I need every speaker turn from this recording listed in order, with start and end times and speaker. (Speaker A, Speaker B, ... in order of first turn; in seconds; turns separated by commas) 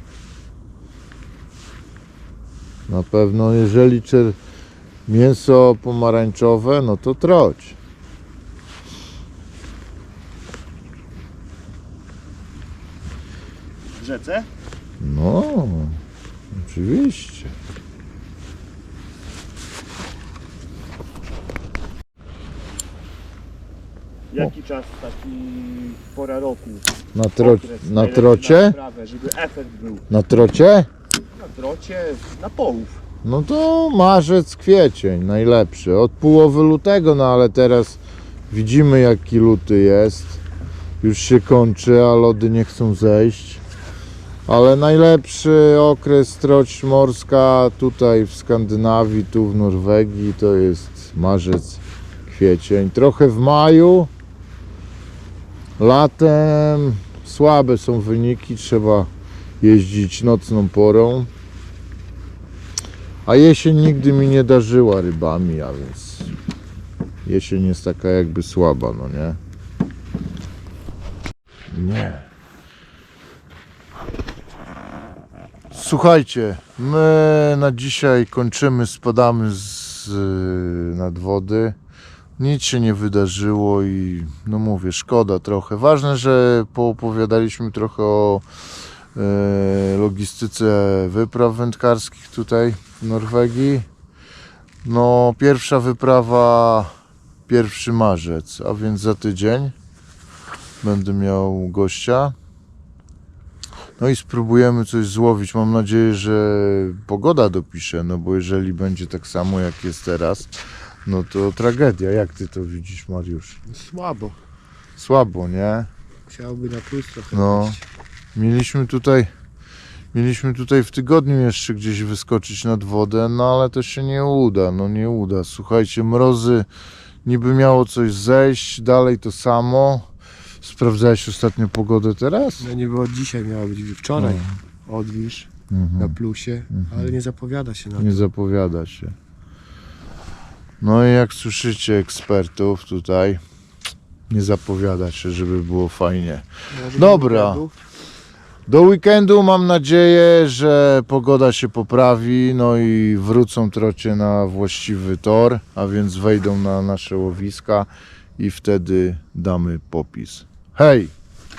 Speaker A: 2.9-4.4, Speaker A: 5.0-7.8, Speaker B: 13.9-14.5, Speaker A: 15.0-16.0, Speaker A: 16.5-17.5, Speaker B: 24.3-26.9, Speaker A: 27.1-28.8, Speaker B: 27.4-30.0, Speaker A: 30.1-30.9, Speaker B: 31.4-33.0, Speaker A: 33.2-40.4, Speaker A: 41.0-43.6, Speaker A: 44.5-54.1, Speaker A: 55.8-59.1, Speaker A: 59.6-61.3, Speaker A: 63.2-66.3, Speaker A: 67.2-69.4, Speaker A: 71.7-72.2, Speaker A: 75.7-81.8, Speaker A: 82.4-88.4, Speaker A: 89.1-93.8, Speaker A: 94.8-96.9, Speaker A: 97.5-99.7, Speaker A: 100.8-102.3, Speaker A: 104.0-113.6, Speaker B: 113.7-114.3, Speaker A: 115.0-115.9, Speaker B: 116.3-117.8, Speaker A: 117.3-117.8, Speaker A: 118.3-119.3, Speaker A: 120.1-126.7, Speaker A: 127.2-130.1, Speaker A: 130.6-132.7, Speaker B: 132.6-138.3, Speaker A: 134.2-134.5, Speaker A: 135.7-136.2, Speaker A: 136.7-137.1, Speaker A: 138.0-139.1, Speaker A: 140.8-143.4, Speaker A: 144.3-147.7, Speaker B: 146.7-147.7, Speaker A: 148.7-161.1